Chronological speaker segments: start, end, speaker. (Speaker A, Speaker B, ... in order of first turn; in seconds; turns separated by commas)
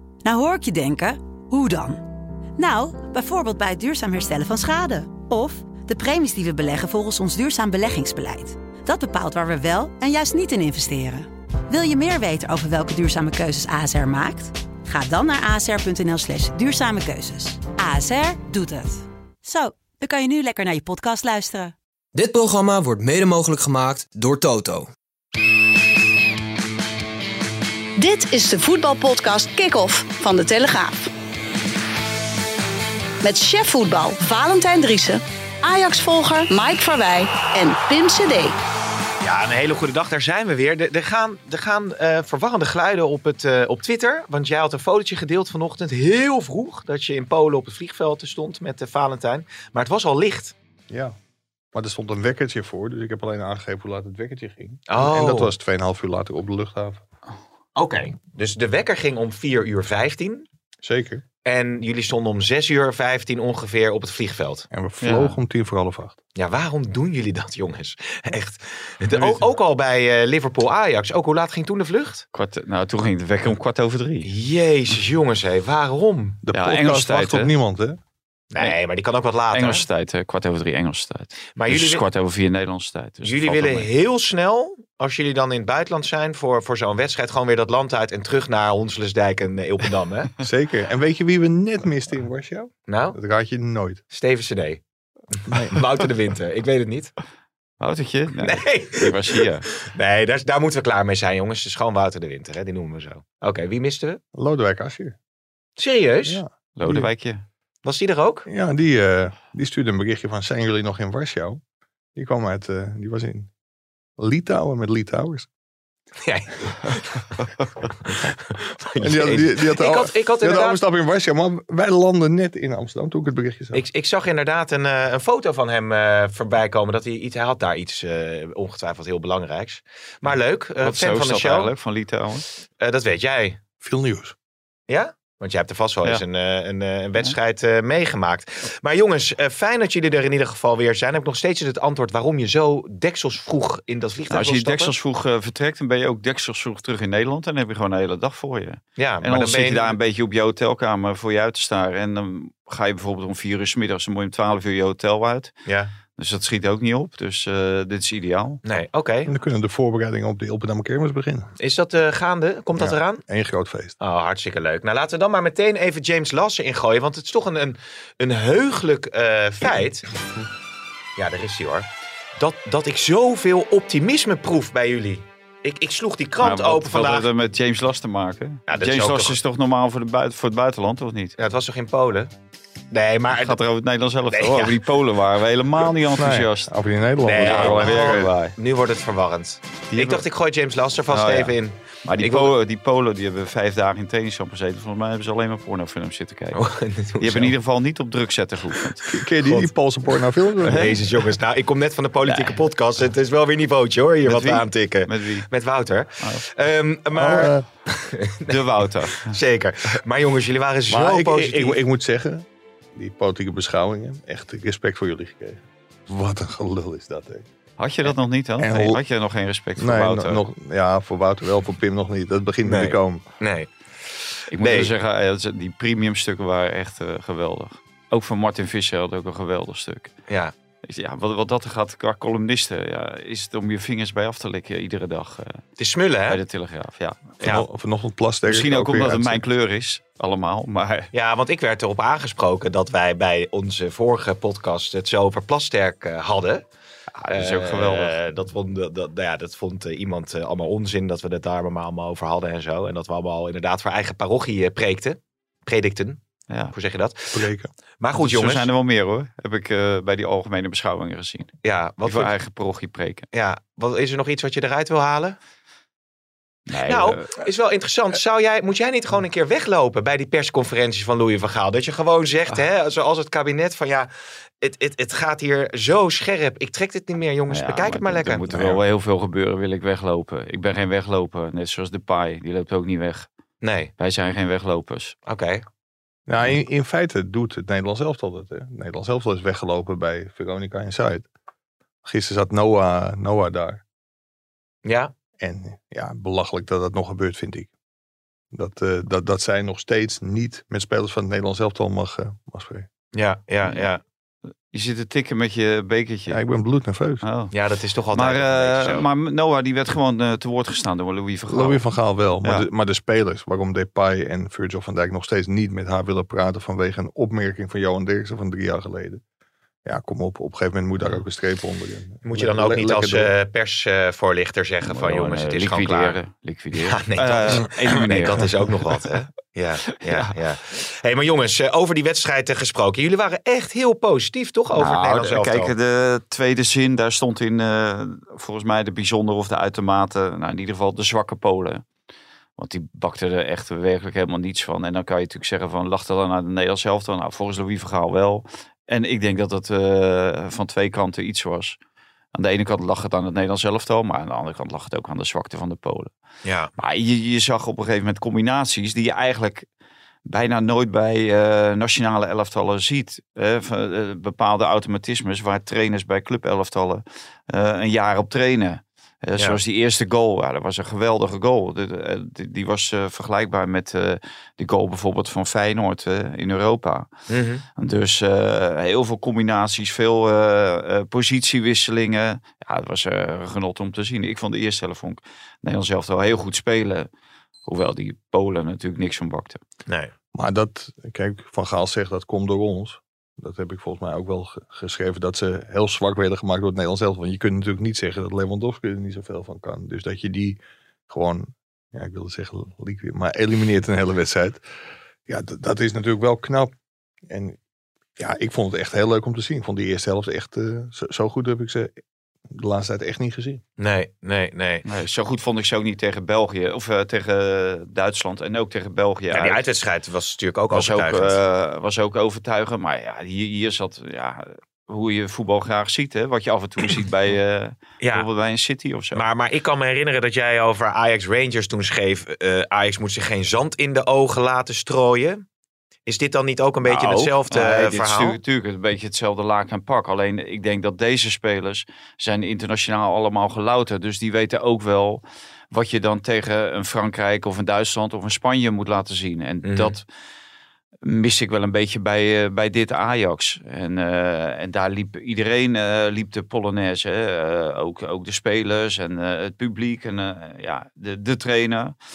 Speaker A: 0.2-2.0, Speaker A: 2.6-21.7, Speaker B: 22.1-24.9, Speaker C: 28.0-31.1, Speaker C: 33.2-38.6, Speaker D: 39.2-50.5, Speaker E: 50.9-51.2, Speaker E: 51.7-57.0, Speaker D: 54.9-55.5, Speaker D: 57.8-60.5, Speaker E: 60.8-61.2, Speaker D: 61.5-64.7, Speaker E: 64.7-66.2, Speaker F: 65.0-65.4, Speaker D: 66.4-72.3, Speaker F: 72.3-74.3, Speaker D: 74.2-76.4, Speaker E: 76.4-78.0, Speaker F: 76.5-77.5, Speaker D: 78.5-79.9, Speaker F: 79.5-83.9, Speaker D: 81.5-82.0, Speaker D: 83.2-90.3, Speaker E: 90.4-94.0, Speaker D: 92.9-93.2, Speaker D: 94.1-94.8, Speaker D: 95.3-97.1, Speaker E: 95.5-95.8, Speaker F: 97.8-99.7, Speaker D: 98.4-104.2, Speaker E: 104.3-105.2, Speaker D: 105.8-106.4, Speaker E: 106.2-107.1, Speaker F: 106.8-107.4, Speaker D: 107.8-108.5, Speaker E: 108.5-111.6, Speaker E: 112.2-113.5, Speaker E: 114.2-115.5, Speaker D: 116.2-120.8, Speaker E: 119.0-123.8, Speaker D: 123.7-131.7, Speaker F: 130.8-132.4, Speaker D: 132.8-133.6, Speaker E: 133.8-134.3, Speaker D: 134.9-144.9, Speaker F: 144.3-155.5, Speaker D: 149.0-150.0, Speaker D: 155.7-155.9, Speaker F: 156.2-158.6, Speaker D: 158.7-159.3, Speaker E: 159.3-161.5, Speaker D: 161.6-163.2, Speaker E: 162.8-164.0, Speaker D: 164.0-170.1, Speaker D: 171.2-177.3, Speaker F: 176.4-181.4, Speaker D: 178.7-179.4, Speaker D: 181.4-182.3, Speaker D: 182.9-183.6, Speaker F: 183.3-186.7, Speaker D: 184.3-184.8, Speaker E: 186.1-188.3, Speaker D: 187.2-192.5, Speaker F: 187.4-188.6, Speaker F: 189.9-190.2, Speaker F: 191.1-196.6, Speaker D: 196.6-197.5, Speaker F: 197.2-199.1, Speaker E: 199.1-201.0, Speaker D: 200.6-211.8, Speaker F: 200.7-201.0, Speaker F: 202.3-202.7, Speaker F: 204.3-205.5, Speaker E: 207.1-207.7, Speaker F: 208.5-209.4, Speaker E: 210.9-217.5, Speaker F: 217.8-220.4, Speaker E: 218.6-219.0, Speaker E: 219.8-223.2, Speaker D: 222.6-223.7, Speaker F: 224.5-230.1, Speaker D: 224.6-224.9, Speaker D: 230.3-230.5, Speaker F: 230.8-235.6, Speaker D: 235.8-236.4, Speaker F: 236.3-237.6, Speaker E: 237.4-239.4, Speaker F: 238.5-241.1, Speaker D: 241.1-246.7, Speaker F: 247.2-248.2, Speaker D: 247.3-256.2, Speaker D: 256.7-257.5, Speaker E: 257.3-257.7, Speaker D: 258.0-258.7, Speaker F: 258.1-261.5, Speaker D: 261.6-262.3, Speaker F: 262.0-263.3, Speaker D: 263.3-265.4, Speaker F: 266.7-267.3, Speaker D: 266.9-274.1, Speaker D: 274.6-278.8, Speaker F: 277.5-283.3, Speaker D: 283.6-283.9, Speaker F: 284.0-285.1, Speaker D: 285.3-285.6, Speaker E: 286.3-291.3, Speaker E: 292.0-293.8, Speaker D: 294.9-295.1, Speaker E: 295.4-297.7, Speaker E: 298.5-302.9, Speaker D: 303.1-304.0, Speaker F: 304.7-306.4, Speaker E: 306.3-307.2, Speaker F: 307.2-307.5, Speaker D: 307.5-309.1, Speaker F: 308.1-311.9, Speaker E: 311.5-319.2, Speaker E: 319.9-323.3, Speaker D: 322.2-326.2, Speaker F: 324.9-329.0, Speaker D: 326.7-335.7, Speaker F: 330.0-330.3, Speaker F: 334.7-341.9, Speaker F: 342.6-351.8, Speaker F: 352.3-356.1, Speaker D: 356.4-356.7, Speaker F: 356.8-359.7, Speaker F: 360.3-377.1, Speaker D: 377.3-377.6, Speaker F: 377.8-387.1, Speaker F: 387.7-389.6, Speaker E: 390.3-404.6, Speaker E: 405.3-406.7, Speaker E: 407.3-407.6, Speaker E: 408.2-411.9, Speaker E: 412.5-413.6, Speaker D: 413.8-414.9, Speaker F: 414.9-419.6, Speaker D: 419.3-421.4, Speaker F: 420.7-429.2, Speaker D: 428.0-428.3, Speaker D: 429.1-435.4, Speaker D: 436.1-438.4, Speaker F: 436.8-450.1, Speaker D: 449.6-450.0, Speaker F: 451.0-461.9